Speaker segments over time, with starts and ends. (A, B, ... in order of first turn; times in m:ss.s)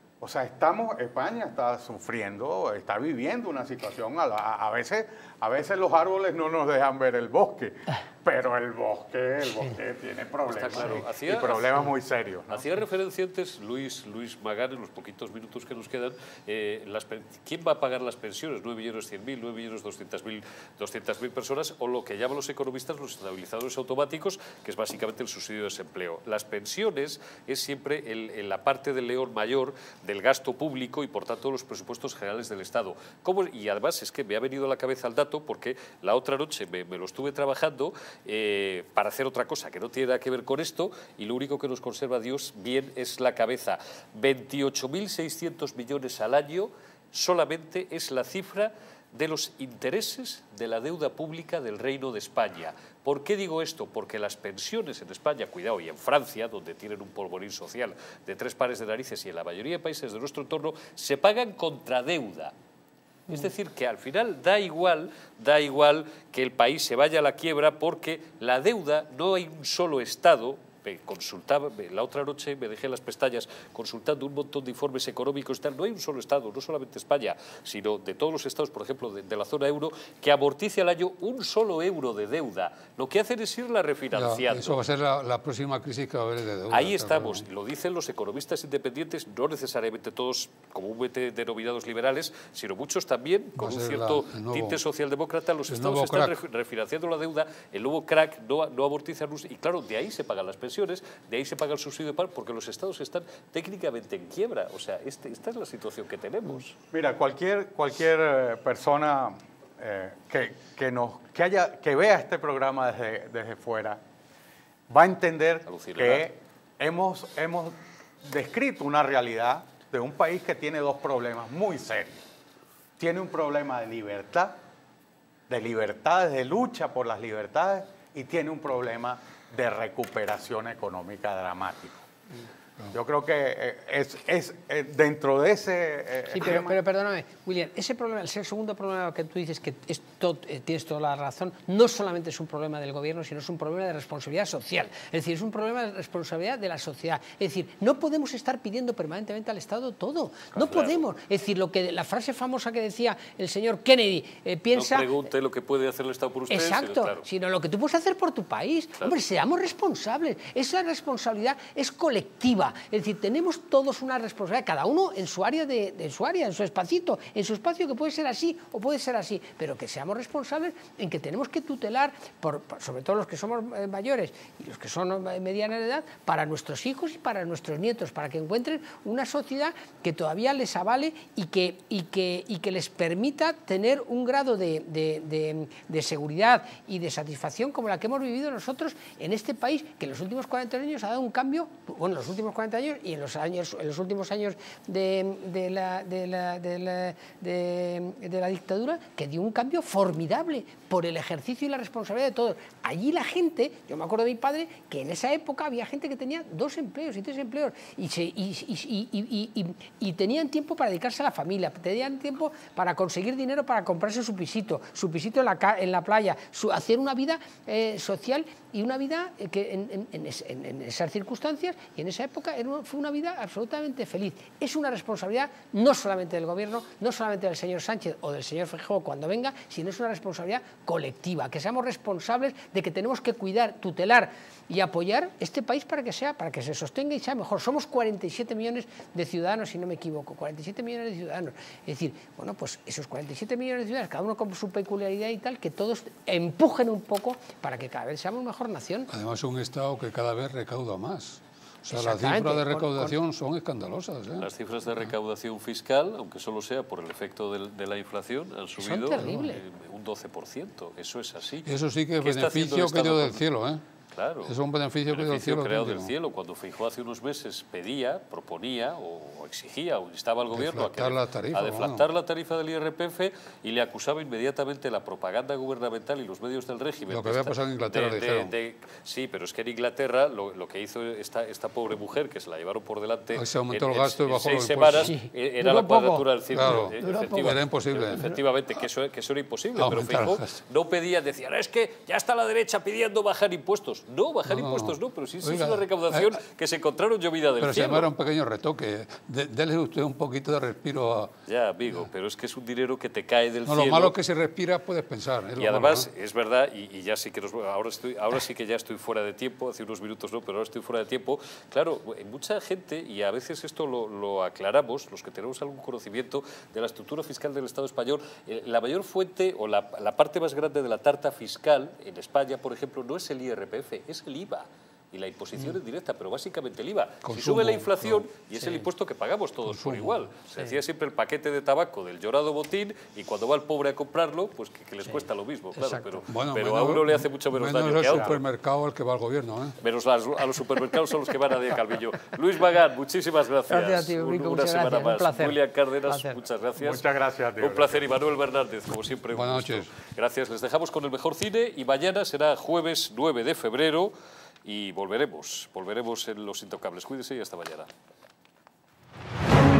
0:00.2-0:12.6 A
0:10.5-0:11.9 B
0:12.5-1:02.5 B
1:03.3-1:24.8 B
1:24.1-1:27.4 C
1:26.7-1:46.8 B
1:33.6-1:34.8 C
1:35.7-1:36.4 C
1:46.9-1:54.0 A
1:54.9-2:02.2 A
1:55.7-1:56.2 B
2:03.0-2:04.6 A
2:05.5-2:12.0 A
2:12.9-2:16.8 A
2:16.3-2:35.1 D
2:30.5-2:31.0 B
2:34.7-2:37.2 B
2:36.5-4:09.1 D
4:09.1-4:14.5 C
4:11.9-4:13.2 D
4:14.4-4:23.4 B
4:18.8-4:19.6 D
4:21.6-4:23.8 C
4:24.1-4:24.6 B
4:24.4-4:26.1 C
4:25.1-4:58.1 B
4:30.5-4:32.0 C
4:37.1-4:38.5 C
4:43.3-4:45.1 C
4:45.0-4:47.5 D
4:46.5-4:48.2 C
4:49.8-4:50.6 C
4:54.5-4:56.4 C
4:57.6-5:01.3 C
5:01.5-5:04.1 B
5:03.7-5:06.1 C
5:05.6-5:38.4 B
5:27.2-5:28.2 C
5:29.6-5:30.3 C
5:35.8-5:36.2 D
5:36.3-5:39.8 C
5:39.8-5:47.0 B
5:43.7-5:45.6 D
5:46.1-5:46.4 D
5:46.8-5:48.0 A
5:47.6-5:54.1 B
5:49.3-5:49.9 C
5:54.6-5:57.9 B